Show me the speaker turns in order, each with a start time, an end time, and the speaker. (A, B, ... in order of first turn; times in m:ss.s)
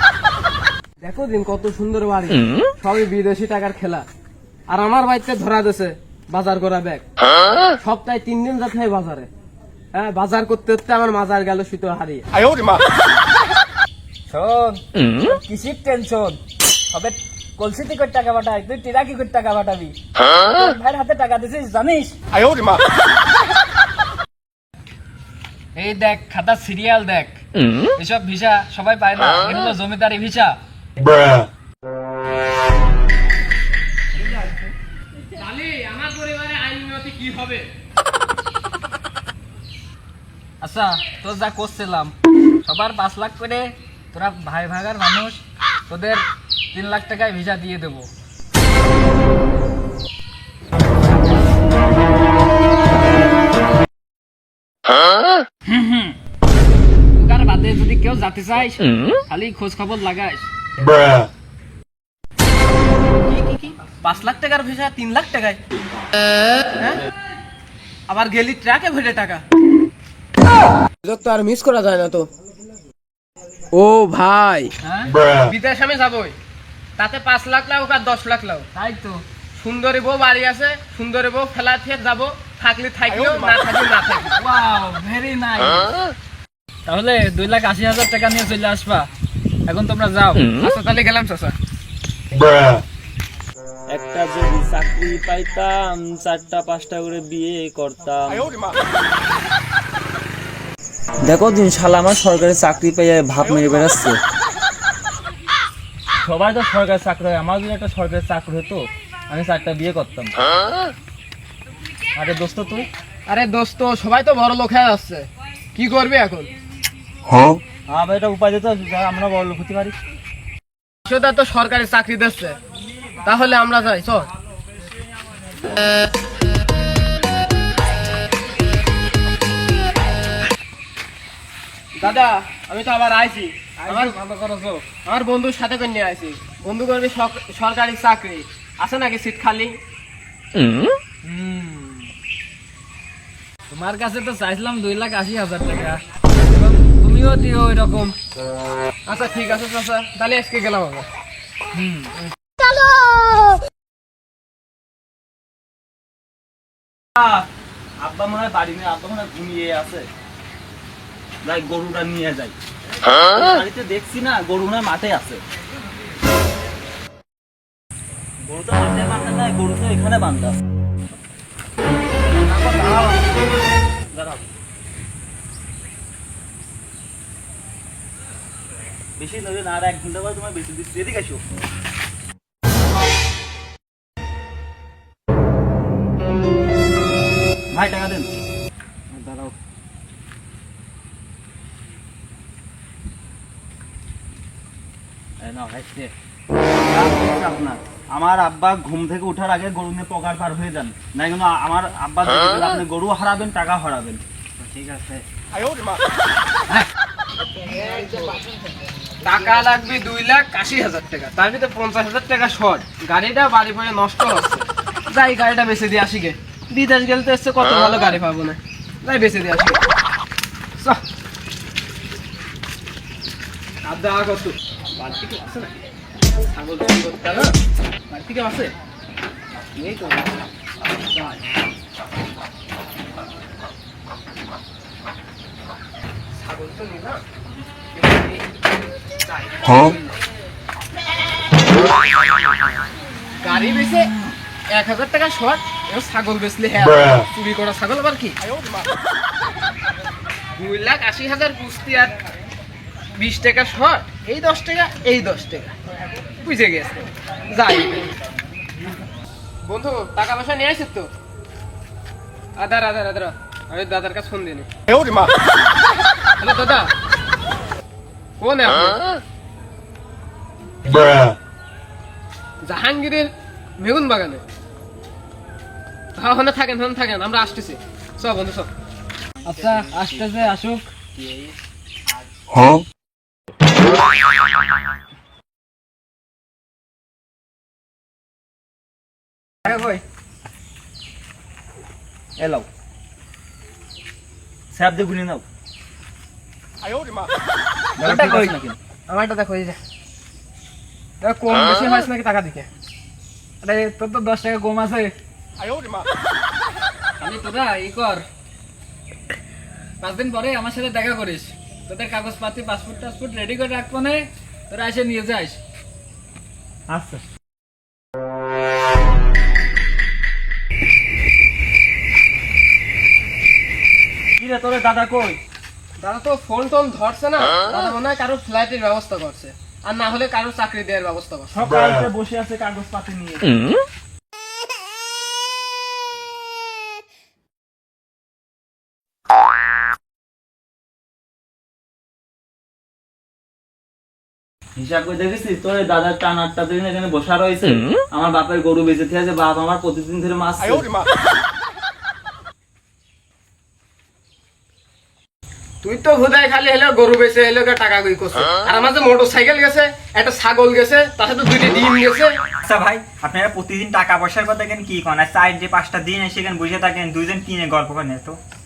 0:01.0-0:04.0 A
0:04.7-0:07.0 A
0:07.8-0:09.3 A
0:09.9-0:12.8 A
0:14.3-0:16.4 B
0:16.9-0:22.2 B
0:25.8-0:27.4 B
0:28.0-0:30.6 B
0:35.4-0:37.7 A
0:40.6-0:48.1 B
0:55.7-0:56.1 B
0:57.1-1:00.5 B
1:03.3-1:05.6 A
1:06.8-1:07.0 A
1:08.1-1:09.4 A
1:11.0-1:12.3 A
1:13.7-1:14.7 A
1:14.8-1:15.2 B
1:15.4-1:16.4 A
1:17.0-1:18.7 A
1:18.8-1:19.2 B
1:19.6-1:24.4 A
1:24.4-1:26.0 B
1:26.9-1:29.1 B
1:29.7-1:30.5 B
1:30.6-1:31.6 A
1:33.9-1:38.6 C
1:41.2-1:44.2 C
1:46.2-1:50.3 C
1:52.2-1:52.9 C
1:53.3-1:56.5 A
1:57.9-2:00.0 C
2:01.1-2:02.6 A
2:03.2-2:04.3 A
2:12.0-2:19.7 A
2:13.8-2:14.2 B
2:21.2-2:22.1 B
2:23.7-2:28.2 B
2:29.1-2:31.1 A
2:31.7-2:32.1 B
2:37.2-2:37.5 C
2:38.0-2:40.1 C
2:41.4-2:42.5 C
2:43.1-2:45.4 C
2:48.4-2:50.6 C
2:54.1-2:54.4 C
2:59.2-3:01.4 C
3:07.7-3:08.3 C
3:09.1-3:09.5 A
3:15.4-3:16.1 C
3:16.9-3:24.2 C
3:24.6-3:25.2 A
3:27.6-3:28.4 A
3:29.2-3:39.8 A
3:43.8-3:45.8 A
3:46.4-3:47.6 A
3:48.1-3:48.7 A
3:49.8-3:50.3 A
3:56.4-3:57.2 A
3:59.4-4:00.1 A
4:03.4-4:04.1 A
4:04.7-4:08.4 A
4:10.6-4:12.2 A
4:13.2-4:15.7 A
4:16.4-4:17.0 A
4:17.5-4:18.2 A
4:19.6-4:21.1 A
4:22.6-4:25.3 A
4:26.4-4:26.9 A
4:28.4-4:29.0 A
4:30.9-4:31.3 A
4:32.6-4:34.4 A
4:36.2-4:38.7 A
4:39.4-4:40.9 B
4:49.7-4:50.0 B
4:52.4-4:52.7 C
4:54.7-4:55.4 C
4:58.0-4:58.8 C
4:58.0-4:58.6 A
4:59.1-4:59.8 A
5:01.2-5:02.7 A
5:03.6-5:05.1 B
5:07.2-5:08.2 B
5:10.0-5:15.6 B
5:16.9-5:17.2 C
5:24.4-5:25.4 C
5:26.0-5:31.5 A
5:31.5-5:33.6 C
5:44.8-5:50.9 C
5:55.8-6:02.4 A
6:02.6-6:08.4 D